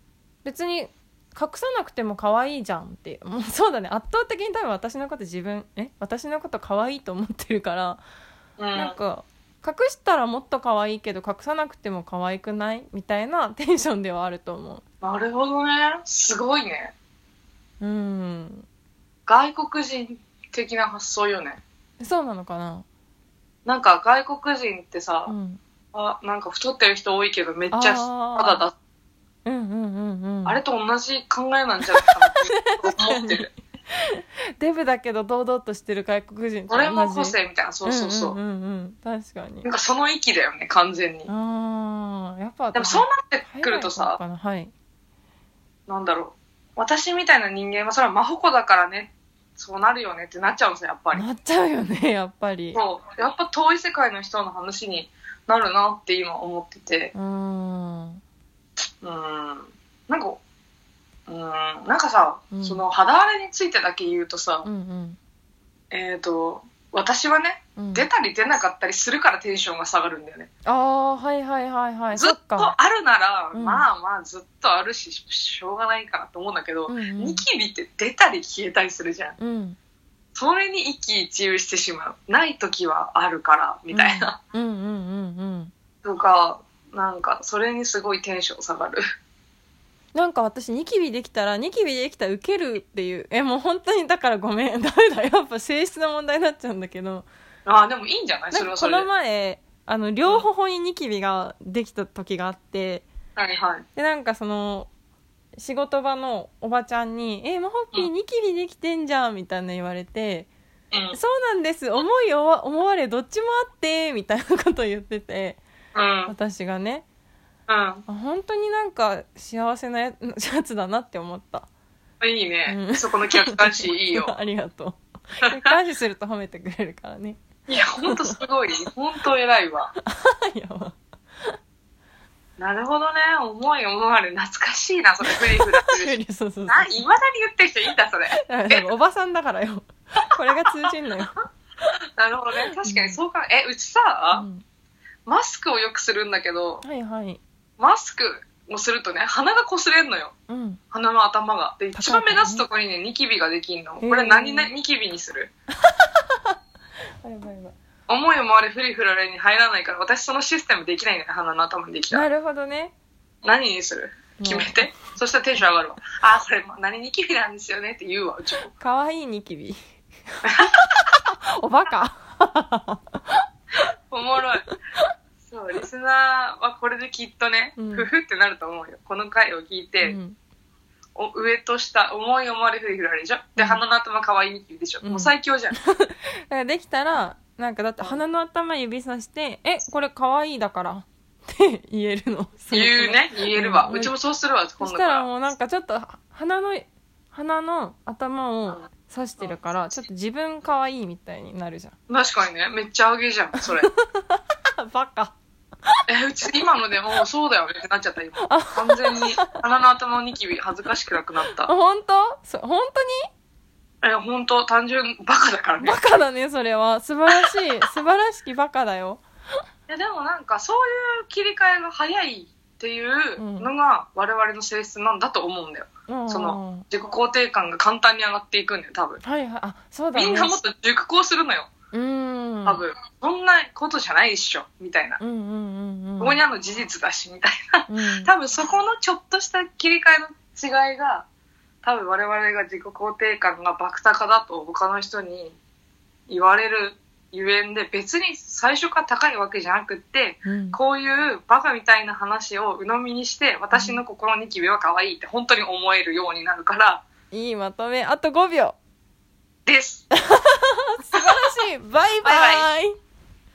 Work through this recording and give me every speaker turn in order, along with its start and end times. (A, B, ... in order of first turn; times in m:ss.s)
0:00.4-0:08.0 A
0:08.6-0:09.0 B
0:08.7-0:14.8 A
0:15.0-0:16.9 B
0:17.8-0:18.6 A
0:19.3-0:21.6 B
0:22.0-0:22.8 A
0:23.6-0:25.3 B
0:25.3-0:25.6 A
0:25.9-0:28.7 B
0:27.7-0:28.6 A
0:29.4-0:30.6 A
0:30.4-0:33.5 B
0:31.9-0:39.7 A
0:36.7-0:38.4 B
0:39.6-0:41.3 B
0:41.3-0:44.7 A
0:42.7-0:44.2 B
0:45.9-0:51.2 B
0:51.1-0:52.8 A
0:52.7-0:57.1 B
0:57.1-0:58.2 A
0:59.0-1:00.4 B
1:01.3-1:04.7 B
1:02.5-1:02.8 A
1:04.6-1:05.2 A
1:05.9-1:10.5 B
1:07.8-1:08.1 A
1:10.6-1:12.7 A
1:12.1-1:19.4 B
1:13.5-1:13.8 A
1:16.9-1:17.4 A
1:19.4-1:19.8 A
1:20.3-1:24.4 B
1:23.9-1:25.7 A
1:26.0-1:29.0 B
1:30.1-1:37.3 A
1:37.6-1:39.1 B
1:38.5-1:43.1 A
1:43.4-1:43.8 B
1:43.9-1:44.9 A
1:45.6-1:50.5 A
1:50.9-1:51.2 B
1:51.1-1:55.6 A
1:55.9-1:56.3 B
1:56.3-1:57.0 A
1:57.7-1:58.0 B
1:58.1-2:01.7 A
2:02.2-2:04.3 B
2:02.7-2:07.4 A
2:05.4-2:05.7 B
2:07.7-2:09.9 B
2:08.1-2:08.4 A
2:10.0-2:11.0 A
2:12.6-2:18.9 B
2:15.3-2:17.0 A
2:18.4-2:21.4 A
2:22.2-2:24.4 B
2:22.8-2:23.2 A
2:24.3-2:24.6 A
2:25.2-2:26.8 B
2:26.8-2:27.4 A
2:27.8-2:30.3 B
2:30.5-2:30.8 A
2:30.9-2:35.5 B
2:31.9-2:32.6 A
2:34.0-2:34.7 A
2:37.2-2:37.7 A
2:38.1-2:42.2 B
2:42.1-2:42.9 A
2:43.4-2:48.7 B
2:44.4-2:44.9 A
2:48.7-2:49.8 A
2:50.3-2:53.4 A
2:50.4-2:50.8 B
2:54.1-2:54.6 B
2:54.6-2:55.1 A
2:55.5-3:00.2 B
2:57.8-2:58.1 A
3:00.0-3:00.4 A
3:01.2-3:05.8 B
3:05.0-3:14.1 A
3:12.7-3:15.2 B
3:14.8-3:22.0 A
3:22.1-3:23.9 B
3:23.8-3:25.3 A
3:26.1-3:31.7 B
3:28.4-3:29.6 A
3:31.6-3:33.3 A
3:34.0-3:36.0 B
3:35.8-3:39.2 A
3:37.3-3:37.8 B
3:39.9-3:49.2 B
3:43.4-3:43.7 A
3:46.1-3:46.8 A
3:49.2-3:50.6 A
3:50.1-3:51.7 B
3:51.9-3:52.8 A
3:52.6-3:55.2 B
3:55.2-3:56.4 A
3:56.2-4:01.2 B
3:57.9-3:58.3 A
4:01.8-4:05.6 B
4:06.3-4:17.0 B
4:10.4-4:10.8 A
4:13.7-4:14.0 A
4:17.3-4:18.8 A
4:19.6-4:20.1 B
4:20.3-4:22.9 A
4:22.2-4:22.7 B